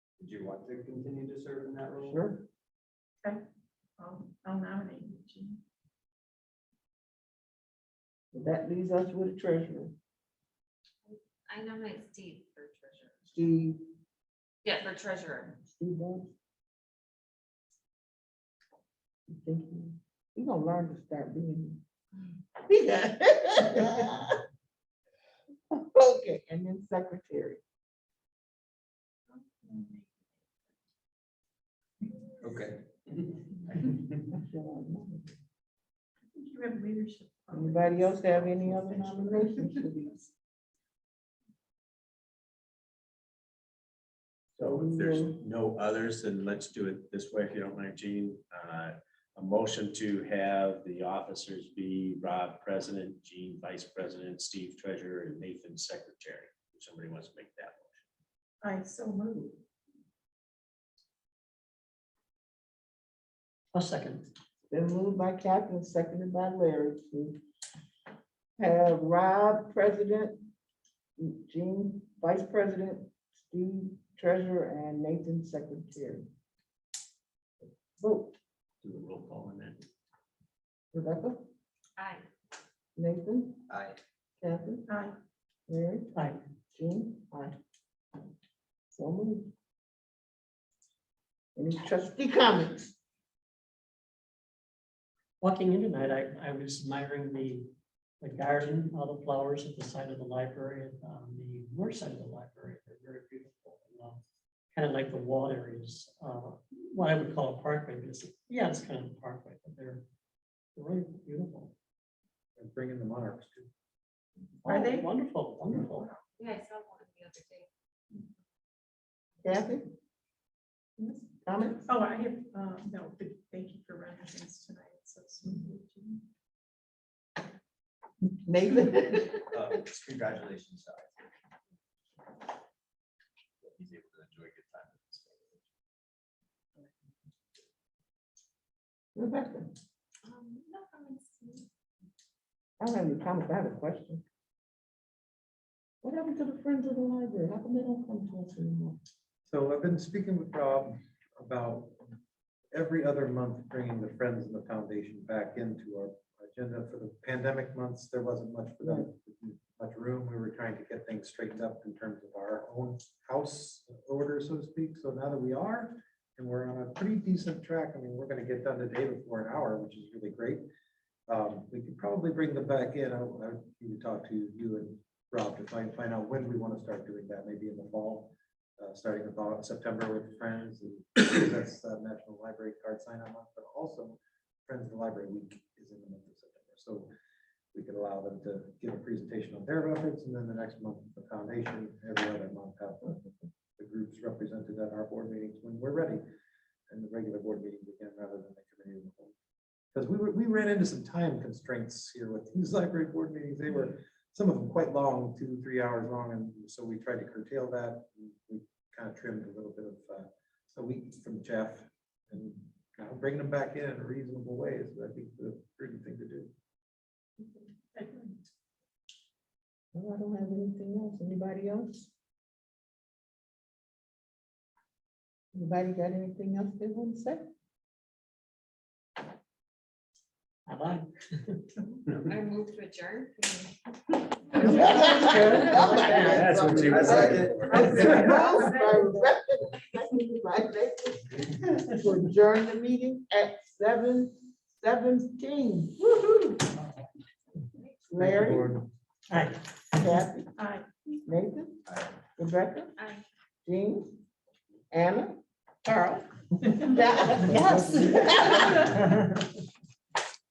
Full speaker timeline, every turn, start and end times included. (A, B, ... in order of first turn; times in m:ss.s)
0:00.2-0:02.2 A
0:02.1-0:02.4 B
0:04.0-0:05.6 C
0:08.3-0:09.9 B
0:11.0-0:13.2 D
0:13.3-0:13.8 B
0:14.6-0:15.6 D
0:15.6-0:16.3 B
0:19.3-0:21.8 B
0:22.6-0:24.4 B
0:25.7-0:27.6 B
0:29.3-0:30.1 C
0:32.4-0:34.2 A
0:34.3-0:35.2 B
0:36.3-0:38.9 C
0:37.5-0:40.3 B
0:38.6-0:38.8 A
0:44.6-0:58.0 E
0:44.6-0:45.4 B
0:58.6-0:59.6 C
1:03.7-1:04.2 F
1:04.7-1:07.4 B
1:08.6-1:10.4 B
1:11.2-1:16.3 B
1:18.0-1:18.3 B
1:18.8-1:19.8 E
1:20.9-1:21.4 B
1:22.0-1:22.2 D
1:23.0-1:23.6 B
1:23.7-1:24.0 A
1:24.4-1:24.9 B
1:24.9-1:25.1 C
1:25.7-1:26.1 B
1:26.1-1:26.4 F
1:26.7-1:27.5 B
1:28.9-1:29.5 B
1:31.6-1:32.9 B
1:35.4-1:37.7 F
1:38.2-1:44.2 F
1:44.7-1:50.0 F
1:50.8-1:51.7 F
1:52.7-1:53.6 G
1:54.6-1:56.1 F
1:54.6-1:55.2 C
1:56.4-1:57.7 D
1:59.4-1:59.9 B
2:01.0-2:01.3 C
2:01.4-2:01.8 B
2:01.8-2:06.2 C
2:08.4-2:09.7 B
2:09.5-2:11.2 A
2:13.6-2:15.6 A
2:19.1-2:19.7 B
2:20.2-2:21.6 D
2:22.8-2:24.2 B
2:26.0-2:29.0 B
2:29.5-2:31.9 G
2:32.7-2:50.6 G
2:38.8-2:39.1 B
2:51.3-3:07.1 G
3:07.7-3:13.0 G
3:13.8-3:16.2 G
3:16.9-3:19.3 G
3:19.9-3:36.5 G
3:37.9-3:38.4 C
3:39.9-3:42.1 B
3:45.5-3:47.4 B
3:50.7-3:51.6 F
3:52.1-3:53.8 D
3:54.5-3:55.9 D
3:54.6-4:06.7 B
3:55.9-3:56.6 F
3:56.2-3:58.4 A
3:56.2-3:57.5 E
4:07.8-4:08.0 D
4:08.1-4:08.8 B
4:09.3-4:09.6 F
4:09.9-4:10.5 B
4:10.6-4:10.9 C
4:11.2-4:11.8 B
4:12.4-4:12.9 B
4:13.0-4:13.2 D
4:13.6-4:14.2 B
4:14.9-4:19.0 B